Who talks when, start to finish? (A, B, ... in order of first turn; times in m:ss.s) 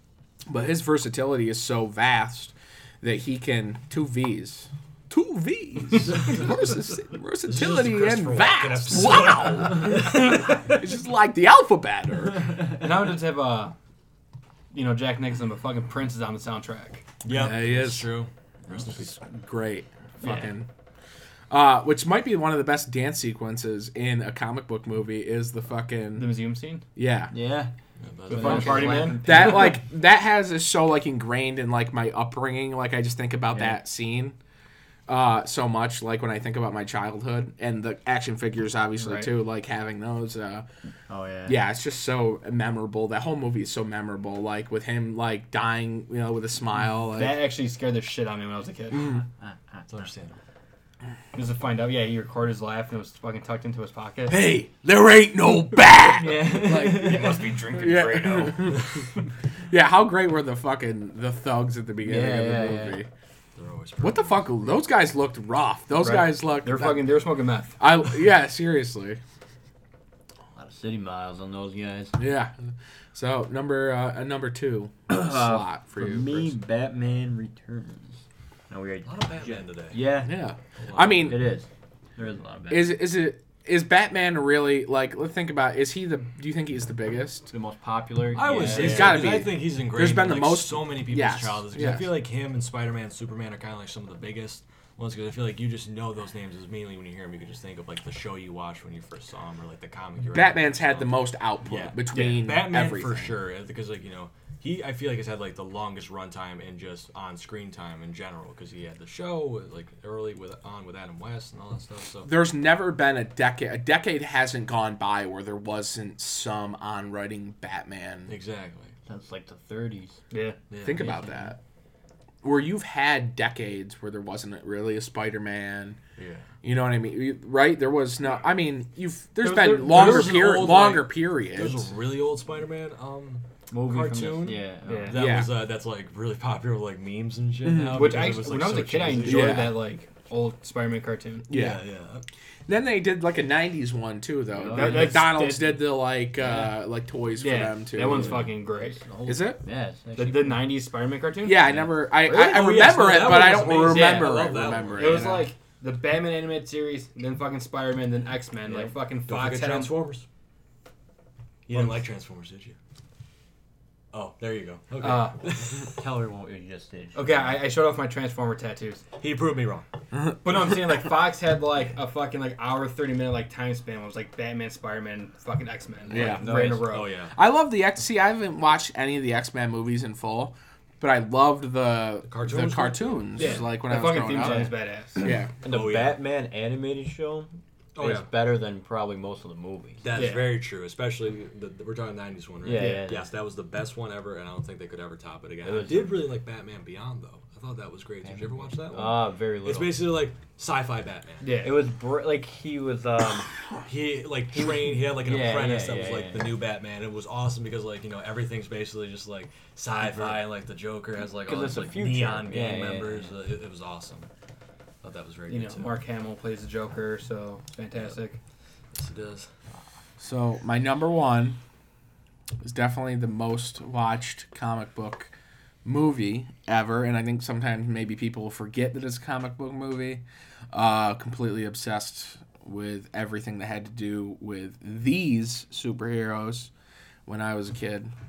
0:00.5-0:12.7 A
0:06.1-0:06.5 B
0:07.4-0:10.6 B
0:12.7-0:13.8 C
0:14.7-0:17.1 C
0:17.2-0:19.2 B
0:17.3-0:18.1 A
0:18.9-0:20.7 A
0:20.2-0:20.5 C
0:21.5-0:26.3 A
0:26.2-0:26.8 C
0:27.0-0:27.3 A
0:27.3-0:27.7 D
0:28.0-0:29.2 B
0:28.3-0:29.8 D
0:28.3-0:29.8 C
0:29.2-0:34.4 A
0:33.5-0:33.8 D
0:35.1-0:40.7 A
0:39.0-0:39.3 C
0:41.1-0:41.6 D
0:41.5-0:47.5 A
0:47.1-0:49.2 C
0:48.9-0:49.2 A
0:49.4-0:50.0 D
0:49.9-0:50.4 B
0:51.3-0:54.4 C
0:54.3-0:59.0 A
0:56.1-0:57.5 D
0:56.4-0:59.0 C
0:59.7-1:03.1 A
1:02.0-1:03.0 D
1:03.6-1:04.9 B
1:04.0-1:07.1 A
1:06.0-1:07.9 C
1:07.8-1:09.2 A
1:10.6-1:12.2 D
1:12.2-1:16.6 A
1:15.1-1:20.3 D
1:19.0-1:20.0 B
1:20.2-1:21.6 A
1:20.8-1:21.5 B
1:21.2-1:23.0 D
1:22.7-1:27.5 A
1:27.5-1:29.3 D
1:28.3-1:52.3 B
1:28.6-1:32.2 A
1:40.3-1:43.4 A
1:42.1-1:42.4 C
1:52.2-1:58.3 A
1:58.3-1:58.9 B
1:59.1-2:00.2 D
2:00.3-2:00.6 C
2:00.7-2:01.1 B
2:00.8-2:01.6 A
2:00.9-2:01.5 D
2:02.4-2:06.0 A
2:06.2-2:06.5 B
2:06.6-2:11.9 A
2:09.4-2:10.6 C
2:09.8-2:19.7 B
2:13.7-2:15.2 D
2:14.9-2:15.2 C
2:15.1-2:15.6 A
2:17.6-2:18.3 A
2:17.9-2:21.5 C
2:19.2-2:19.8 A
2:21.5-2:21.8 A
2:21.5-2:22.2 B
2:22.7-2:28.4 A
2:24.5-2:25.3 D
2:24.7-2:26.8 C
2:27.4-2:29.0 C
2:28.1-2:30.7 D
2:28.2-2:28.4 B
2:29.3-2:29.6 A
2:30.2-2:31.8 C
2:31.4-2:35.5 A
2:32.3-2:35.4 B
2:33.8-2:39.9 C
2:38.7-2:38.9 D
2:39.3-2:40.3 B
2:41.7-2:42.8 B
2:41.7-2:42.0 C
2:44.1-2:46.0 B
2:45.0-2:45.4 C
2:46.0-2:47.6 D
2:47.2-2:49.0 C
2:49.2-2:49.9 B
2:50.1-2:50.7 A
2:50.4-2:57.1 C
2:56.1-2:56.5 A
2:56.1-2:56.9 D
2:56.8-2:57.3 B
2:57.3-3:05.5 A
3:02.3-3:03.7 B
3:03.4-3:05.3 C
3:04.2-3:04.7 D
3:05.6-3:10.0 D
3:05.6-3:06.2 B
3:08.0-3:08.3 B
3:10.0-3:21.5 B
3:10.1-3:10.6 C
3:12.6-3:13.3 D
3:12.7-3:13.1 C
3:15.6-3:16.3 D
3:18.2-3:20.0 D
3:21.4-3:21.8 C
3:21.6-3:23.5 D
3:23.8-3:34.3 B
3:24.5-3:26.6 D
3:30.0-3:30.4 D
3:31.5-3:33.3 D
3:35.0-3:36.0 B
3:35.5-3:38.4 C
3:38.9-3:39.5 B
3:40.2-3:41.6 A
3:42.6-3:45.3 A
3:45.8-3:56.7 A
3:57.3-3:58.1 A